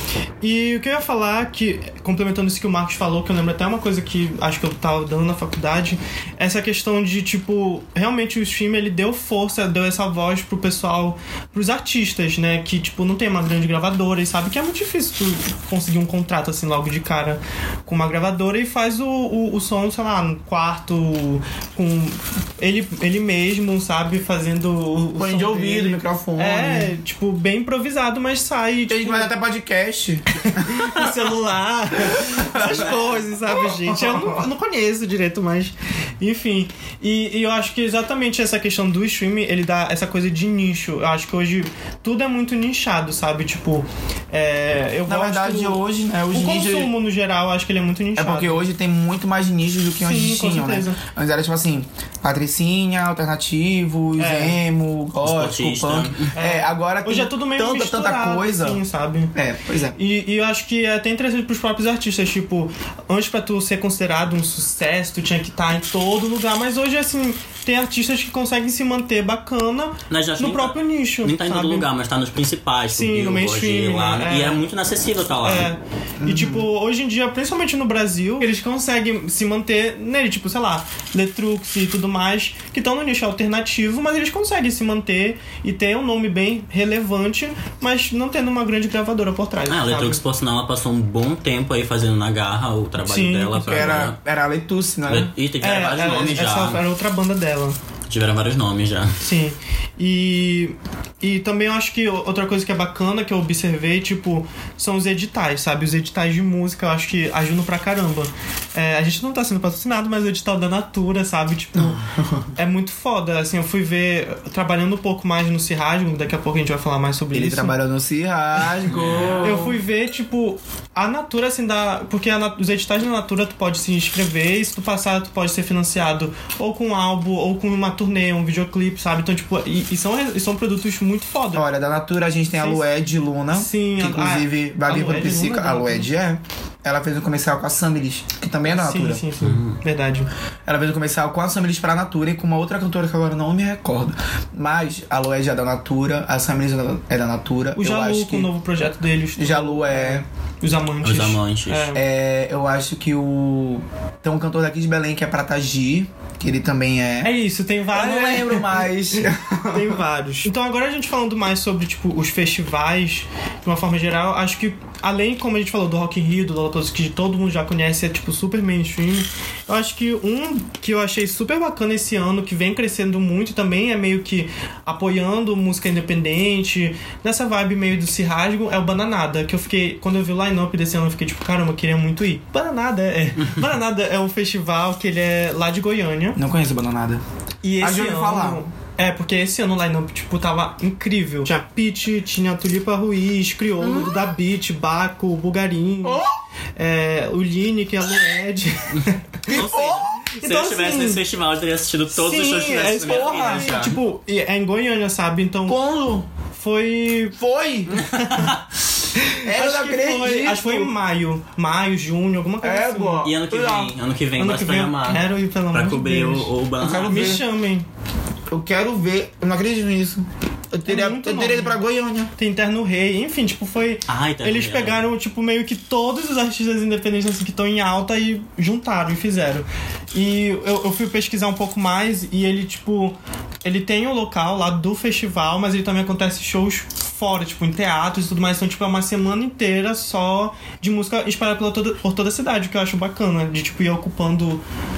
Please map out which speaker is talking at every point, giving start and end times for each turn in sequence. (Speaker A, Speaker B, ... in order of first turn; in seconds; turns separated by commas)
Speaker A: 0.4-29.3, Speaker B: 25.2-26.9, Speaker B: 28.9-31.1, Speaker A: 30.6-48.6, Speaker B: 32.1-34.4, Speaker B: 45.0-47.0, Speaker B: 48.1-58.8, Speaker A: 50.0-51.0, Speaker A: 54.2-54.6, Speaker C: 55.2-56.3, Speaker A: 56.3-59.3, Speaker B: 59.3-60.0, Speaker A: 60.0-71.8, Speaker C: 70.1-75.7, Speaker A: 72.9-74.6, Speaker A: 75.4-90.2, Speaker B: 76.2-76.7, Speaker C: 89.7-94.2, Speaker A: 93.0-94.0, Speaker B: 93.7-95.3, Speaker C: 95.1-96.8, Speaker A: 95.6-97.8, Speaker C: 98.1-99.2, Speaker A: 99.2-112.0, Speaker B: 111.8-112.5, Speaker A: 112.5-117.8, Speaker B: 117.3-119.8, Speaker C: 118.9-119.5, Speaker A: 119.4-131.7, Speaker B: 131.5-139.2, Speaker A: 132.5-132.8, Speaker A: 133.5-136.1, Speaker A: 138.6-140.3, Speaker C: 139.4-139.7, Speaker B: 140.7-148.5, Speaker A: 147.7-152.0, Speaker B: 149.4-150.2, Speaker C: 151.0-151.9, Speaker B: 151.9-157.3, Speaker A: 157.2-158.8, Speaker B: 157.9-160.0, Speaker A: 159.7-186.4, Speaker B: 186.3-187.2, Speaker A: 187.6-196.2, Speaker B: 187.8-188.6, Speaker B: 196.0-196.3, Speaker A: 196.8-199.6, Speaker B: 199.5-200.2, Speaker C: 199.5-204.0, Speaker A: 200.3-201.2, Speaker A: 202.1-205.8, Speaker B: 203.0-203.8, Speaker B: 205.7-206.3, Speaker A: 206.5-207.4, Speaker B: 207.3-208.0, Speaker A: 208.0-208.5, Speaker A: 209.2-213.2, Speaker B: 209.4-210.9, Speaker B: 212.6-213.9, Speaker C: 213.2-217.4, Speaker A: 214.4-216.5, Speaker B: 216.8-217.4, Speaker A: 217.0-217.8, Speaker B: 218.5-222.3, Speaker A: 220.8-221.8, Speaker A: 222.3-244.6, Speaker C: 224.1-225.1